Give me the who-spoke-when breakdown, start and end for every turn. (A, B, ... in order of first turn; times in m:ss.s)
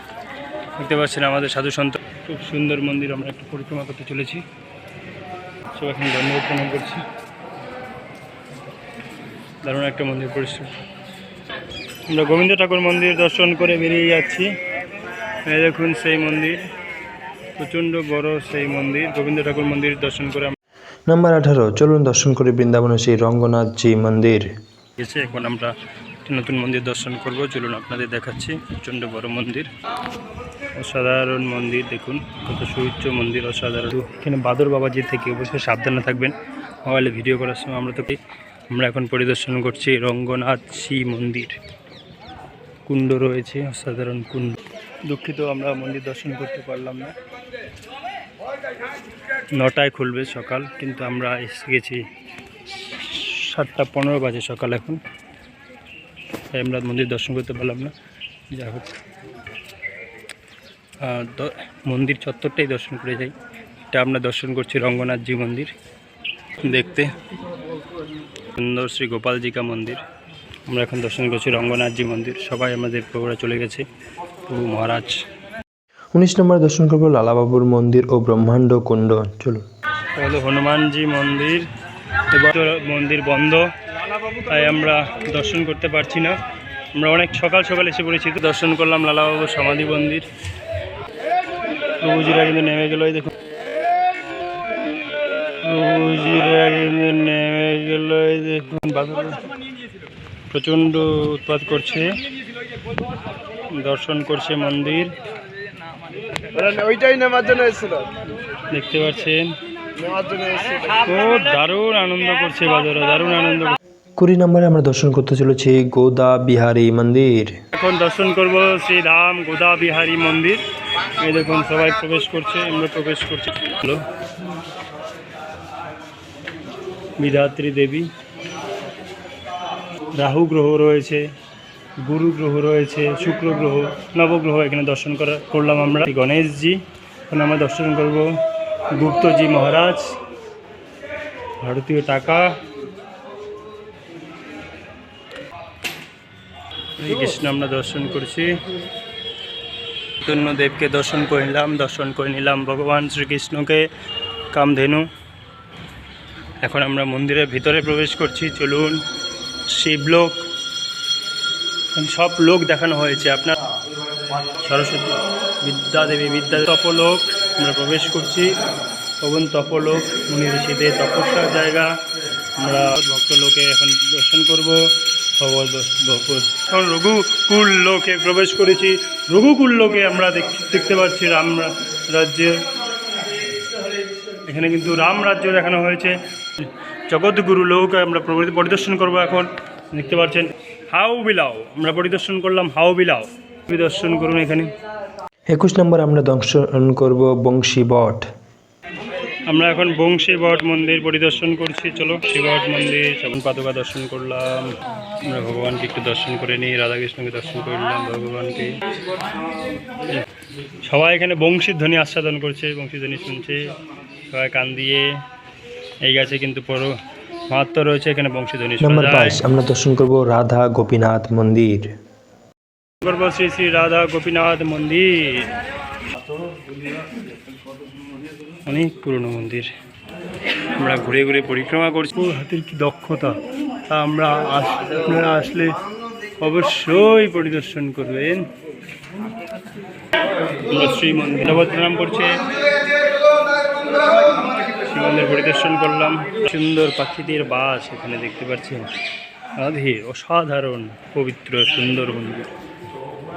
0:00.8-0:04.4 A
0:05.7-0:07.0 A
0:09.6-0:10.7 A
0:12.1-0:14.5 A
0:15.4-0:16.6 A
0:17.6-0:20.5 A
0:21.1-0:24.4 B
0:25.0-0:25.7 A
0:26.2-0:29.7 A
0:30.7-0:36.3 A
0:36.8-0:38.2 A
0:38.7-0:41.6 A
0:42.9-0:47.1 A
0:49.5-0:52.0 A
0:52.7-0:55.0 A
0:56.5-0:57.9 A
0:58.5-0:58.9 A
1:01.0-1:03.3 A
1:03.9-1:05.7 A
1:06.6-1:07.1 A
1:08.5-1:10.0 A
1:10.7-1:13.8 A
1:14.4-1:15.2 A
1:16.1-1:19.6 B
1:20.2-1:21.6 A
1:22.3-1:23.6 A
1:24.4-1:26.3 A
1:26.9-1:30.2 A
1:32.0-1:33.3 A
1:35.6-1:39.4 A
1:40.5-1:42.2 A
1:43.7-1:45.1 A
1:46.5-1:48.1 C
1:48.7-1:49.5 A
1:50.0-1:50.9 C
1:51.0-1:53.8 A
1:54.2-1:57.5 B
1:57.7-2:00.6 A
2:01.2-2:04.0 A
2:07.2-2:08.1 A
2:10.1-2:11.2 A
2:12.0-2:18.3 A
2:18.9-2:20.1 A
2:21.6-2:22.5 A
2:27.0-2:28.6 A
2:30.2-2:33.8 A
2:34.5-2:35.0 A
2:36.6-2:38.9 A
2:39.7-2:40.4 A
2:41.9-2:43.6 A
2:44.5-2:48.5 A
2:49.2-2:51.9 A
2:52.6-2:54.8 A
2:55.4-3:02.6 A
3:04.4-3:14.7 A
3:15.5-3:18.2 B
3:19.4-3:28.7 A
3:30.8-3:33.7 A
3:34.3-3:35.1 A
3:36.0-3:36.9 A
3:37.5-3:39.4 A
3:38.8-3:41.9 B
3:43.0-3:45.5 A
3:48.6-3:49.7 A
3:50.8-3:55.8 A
3:56.4-3:58.5 A
4:00.7-4:02.4 A
4:04.8-4:08.9 A
4:09.6-4:12.5 A